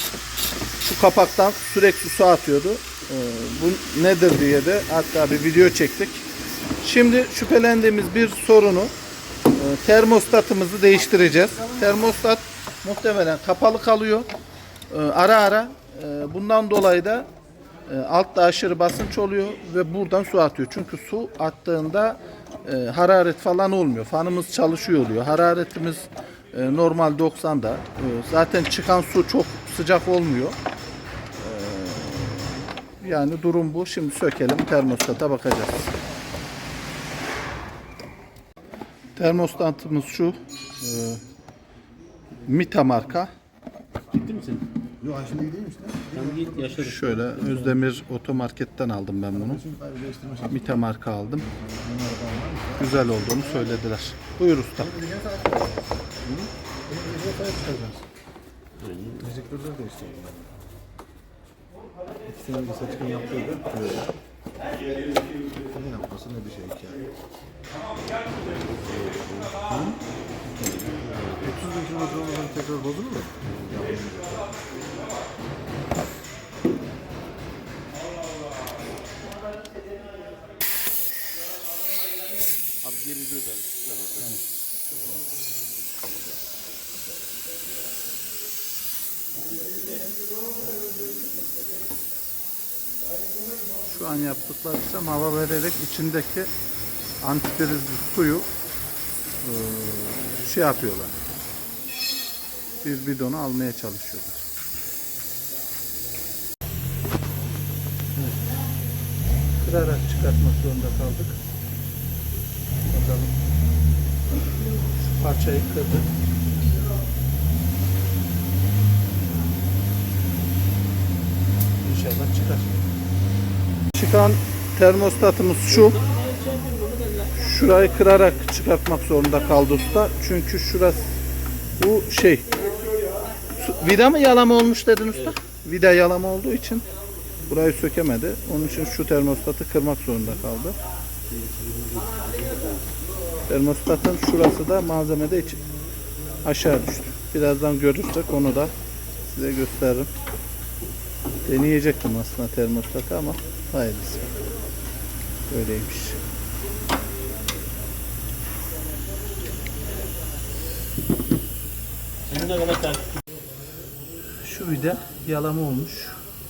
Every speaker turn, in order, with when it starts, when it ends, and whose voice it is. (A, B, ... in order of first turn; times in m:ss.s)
0:00.8-0:06.2 A
0:06.8-0:08.9 A
0:09.5-0:14.3 A
0:14.9-0:17.3 A
0:17.9-0:30.6 A
0:31.4-0:36.0 A
0:39.2-0:41.2 A
0:42.4-0:43.3 A
0:44.1-0:44.7 B
0:45.0-0:46.7 C
0:46.1-0:47.8 B
0:46.8-0:49.6 A
0:49.3-0:50.7 C
0:50.5-0:51.5 A
0:51.6-0:52.9 C
0:52.8-0:55.0 A
0:54.9-0:58.0 C
0:58.8-0:59.3 B
0:59.2-1:00.5 C
1:02.3-1:04.1 C
1:05.7-1:07.0 C
1:08.8-1:10.0 C
1:10.6-1:14.6 C
1:10.6-1:11.7 B
1:22.8-1:24.4 B
1:33.9-1:36.5 A
1:37.2-1:38.5 A
1:39.4-1:41.2 A
1:42.8-1:44.4 A
1:49.6-1:51.4 A
1:52.9-1:53.3 A
1:54.9-1:56.1 A
2:01.8-2:02.7 A
2:03.9-2:06.0 A
2:05.8-2:07.3 B
2:07.3-2:11.0 A
2:11.8-2:12.5 A
2:13.6-2:16.8 A
2:17.5-2:20.8 A
2:21.3-2:22.8 B
2:23.5-2:25.6 A
2:26.4-2:28.7 A
2:29.2-2:30.1 A
2:31.4-2:34.3 A
2:35.5-2:36.2 A
2:42.3-2:43.1 B
2:44.4-2:46.2 A